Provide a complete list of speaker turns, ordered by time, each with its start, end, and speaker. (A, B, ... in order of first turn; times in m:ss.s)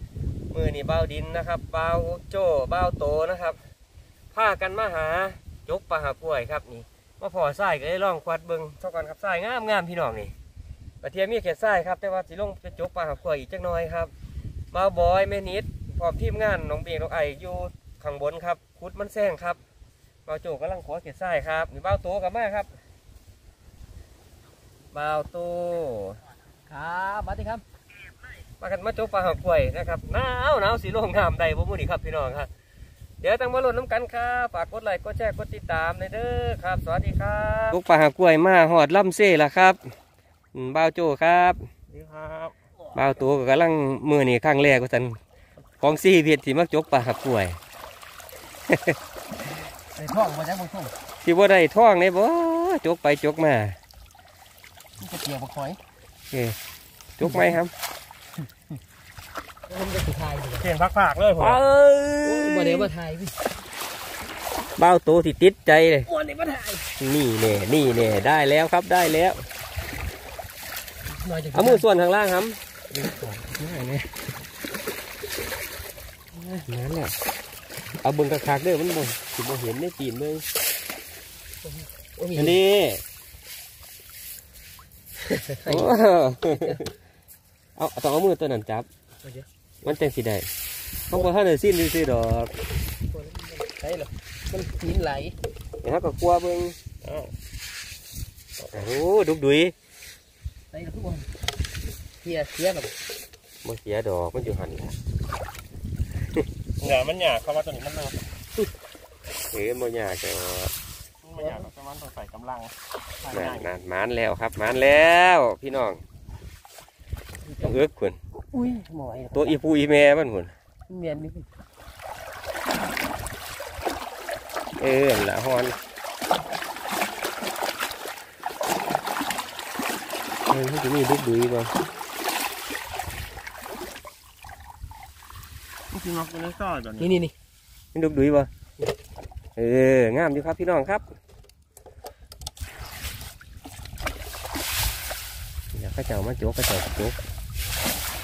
0:00.5-0:03.6 A
0:04.3-0:10.3 A
0:11.0-0:14.1 A
0:14.7-0:19.6 A
0:20.3-0:22.7 A
0:24.9-0:26.2 A
0:26.7-0:27.6 B
0:28.6-0:32.5 A
0:33.2-0:39.8 A
0:40.5-0:41.7 A
0:41.9-0:42.6 C
0:43.0-0:45.2 A
0:45.8-0:47.6 A
0:48.7-0:49.0 A
0:50.0-0:50.9 B
0:51.2-0:53.8 A
0:55.0-0:55.8 B
0:56.3-0:56.6 A
0:57.2-0:57.7 A
0:59.7-1:00.7 B
1:00.6-1:01.6 C
1:01.4-1:02.9 A
1:02.2-1:03.4 B
1:04.8-1:06.1 A
1:06.1-1:06.9 B
1:07.0-1:09.4 A
1:11.1-1:11.8 B
1:11.5-1:14.3 A
1:16.4-1:17.2 A
1:18.0-1:20.4 A
1:21.6-1:22.6 B
1:22.4-1:23.0 A
1:25.2-1:26.0 B
1:25.7-1:26.9 A
1:26.5-1:26.8 B
1:27.8-1:28.9 A
1:29.8-1:30.5 A
1:31.1-1:32.5 A
1:33.1-1:35.4 B
1:35.8-1:36.8 A
1:37.0-1:37.3 C
1:38.7-1:39.7 A
1:40.7-1:41.3 B
1:42.2-1:42.9 B
1:43.6-1:45.0 A
1:46.8-1:48.3 C
1:49.5-1:50.7 A
1:51.2-1:53.7 C
1:51.4-1:51.7 B
1:53.3-1:56.0 A
1:57.4-1:57.8 B
1:57.6-1:58.2 A
1:58.5-1:59.6 B
1:59.3-2:00.5 A
2:00.9-2:01.5 B
2:04.8-2:05.8 A
2:10.5-2:11.7 A
2:15.9-2:17.2 C
2:17.0-2:17.3 B
2:17.9-2:18.5 A
2:19.6-2:21.0 A
2:25.7-2:27.2 A